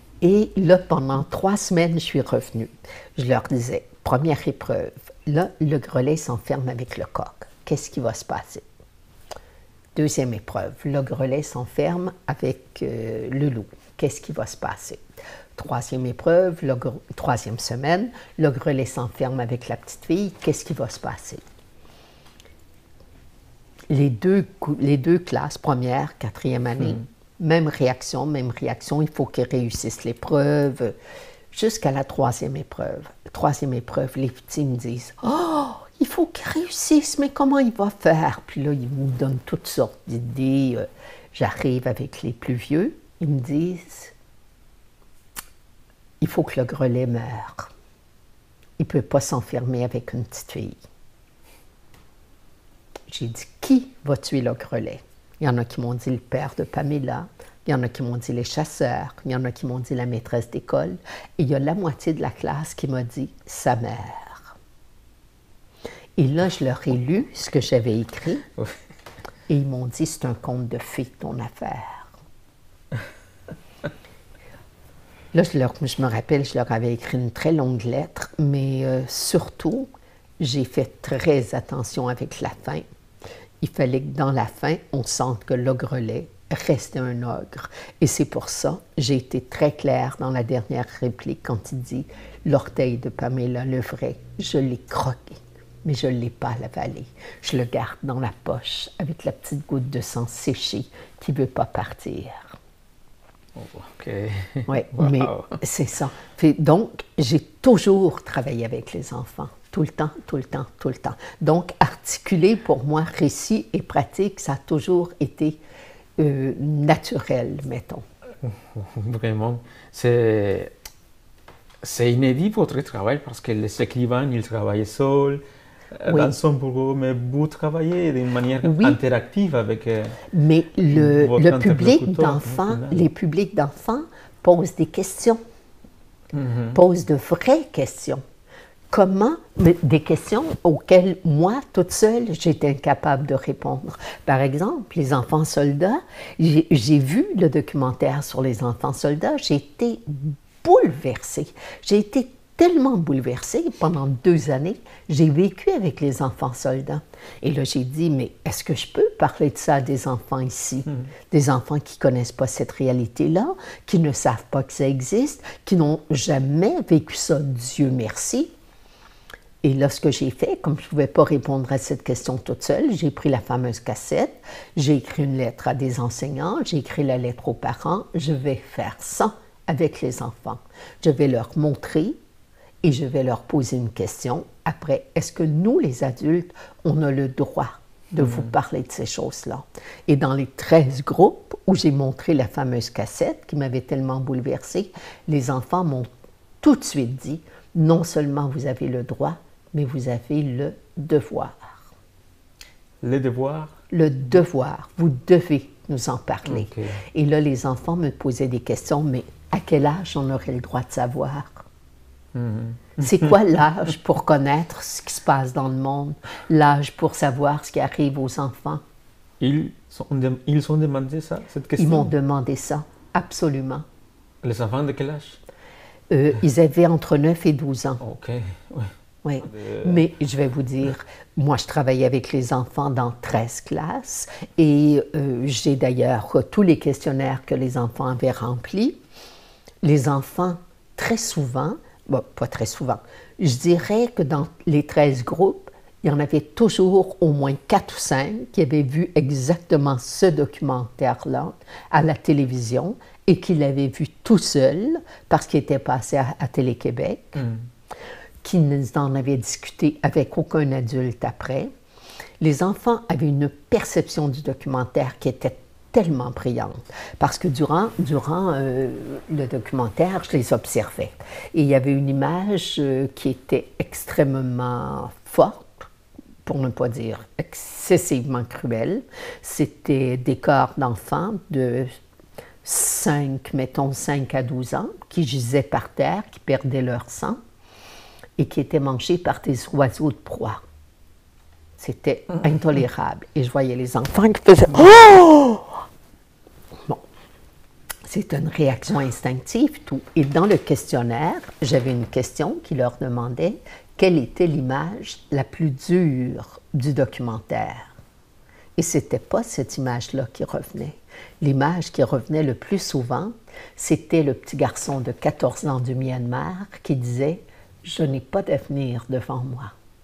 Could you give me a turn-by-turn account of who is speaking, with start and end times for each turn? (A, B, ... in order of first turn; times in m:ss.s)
0:00.2-0:08.6 A
0:10.0-0:15.0 A
0:15.6-0:21.4 A
0:23.9-0:31.0 A
0:31.5-0:44.1 A
0:46.2-0:47.7 A
0:48.8-0:50.8 A
0:53.1-1:04.6 A
1:06.2-1:08.5 A
1:09.5-1:12.1 A
1:15.3-1:22.8 A
1:23.6-1:42.6 A
1:43.6-1:45.6 B
1:44.7-1:55.6 A
1:56.2-1:58.0 A
1:58.4-2:00.7 B
2:01.8-2:05.4 B
2:05.9-2:10.2 B
2:06.1-2:06.4 A
2:08.6-2:09.0 A
2:10.3-2:15.4 A
2:10.9-2:13.0 B
2:16.3-2:16.8 B
2:16.7-2:18.2 A
2:18.9-2:48.5 A
2:49.6-3:02.2 A
3:02.8-3:16.1 A
3:08.2-3:08.5 B
3:16.6-3:21.9 A
3:23.0-3:23.8 B
3:23.9-3:31.6 A
3:26.4-3:27.0 B
3:32.3-3:33.4 B
3:33.0-3:38.8 A
3:39.4-3:42.1 B
3:41.8-3:43.8 A
3:44.4-3:45.4 B
3:46.1-3:48.0 A
3:48.0-3:48.9 B
3:49.2-3:59.0 A
3:49.4-3:50.0 B
3:59.8-4:17.5 A
4:17.4-4:17.6 B
4:18.4-4:21.7 A
4:22.4-4:35.8 A
4:36.5-4:41.9 A
4:42.6-4:47.4 A
4:48.4-4:50.6 A
4:51.8-4:55.8 A
4:58.1-5:07.9 A
5:08.8-5:19.7 A